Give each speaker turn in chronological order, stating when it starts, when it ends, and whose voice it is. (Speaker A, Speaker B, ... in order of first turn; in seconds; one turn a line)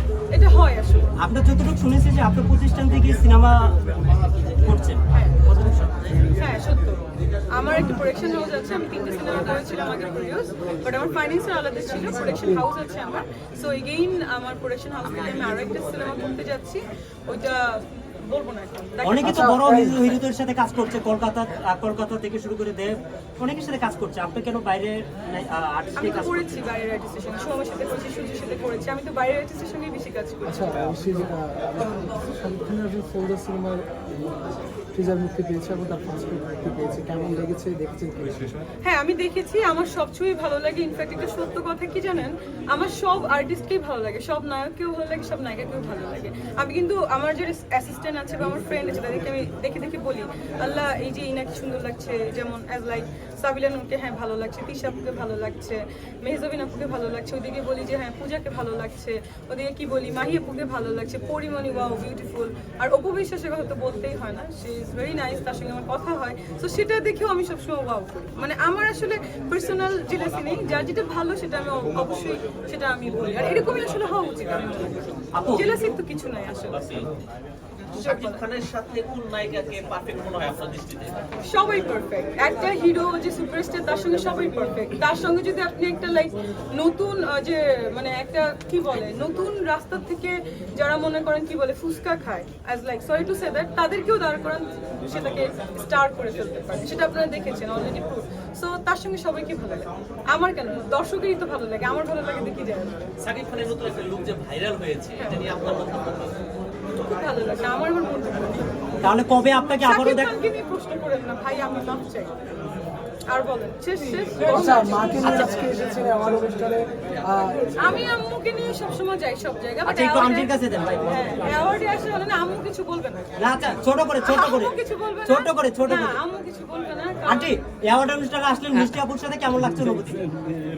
Speaker A: 0.3-1.1
Speaker B: 1.2-3.9
Speaker B: 4.5-5.8
Speaker A: 5.1-5.4
Speaker A: 6.3-19.5
Speaker B: 19.0-26.4
Speaker C: 19.2-20.0
Speaker A: 26.0-30.6
Speaker C: 30.5-38.6
Speaker A: 38.8-77.0
Speaker B: 75.3-75.7
Speaker D: 76.7-77.1
Speaker D: 78.0-81.2
Speaker A: 78.0-78.4
Speaker A: 81.4-103.0
Speaker D: 103.2-106.4
Speaker A: 107.0-108.7
Speaker B: 109.0-110.3
Speaker A: 109.8-112.4
Speaker A: 113.3-115.6
Speaker C: 114.3-118.0
Speaker B: 115.3-115.6
Speaker A: 117.8-120.5
Speaker B: 119.8-121.7
Speaker A: 121.1-123.3
Speaker B: 123.4-126.2
Speaker A: 124.2-127.6
Speaker B: 127.3-130.3